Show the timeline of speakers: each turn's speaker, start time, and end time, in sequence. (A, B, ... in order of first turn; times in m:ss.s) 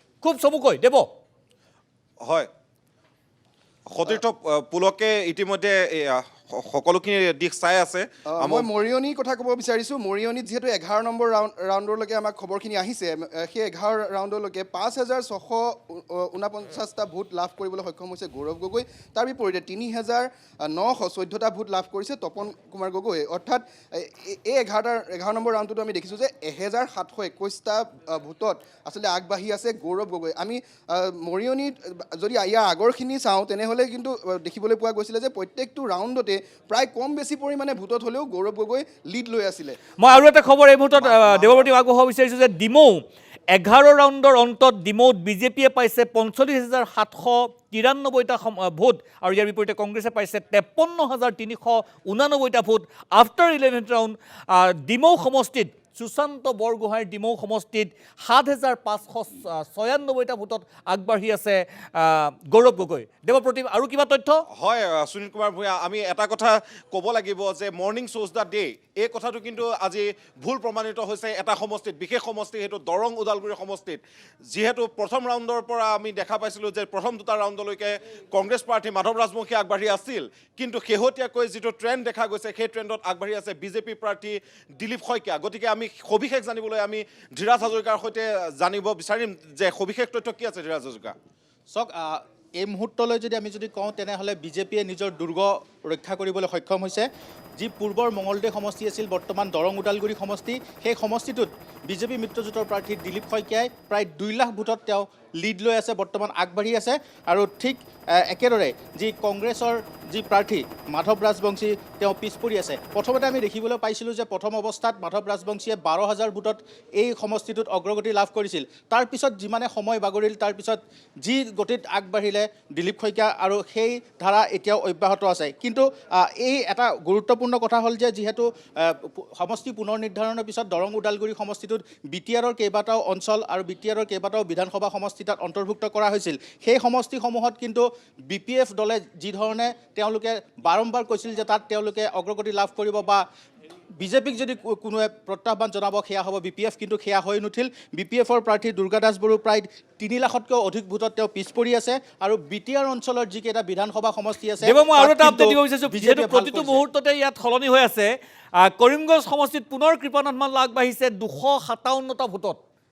0:00.2-0:01.1 A
0:03.9-0:08.7 B
0:08.3-0:40.2 C
0:40.0-1:04.4 A
0:41.0-0:41.7 C
1:04.6-1:31.1 B
1:31.7-2:23.2 D
2:24.0-2:36.8 D
2:34.6-2:42.6 A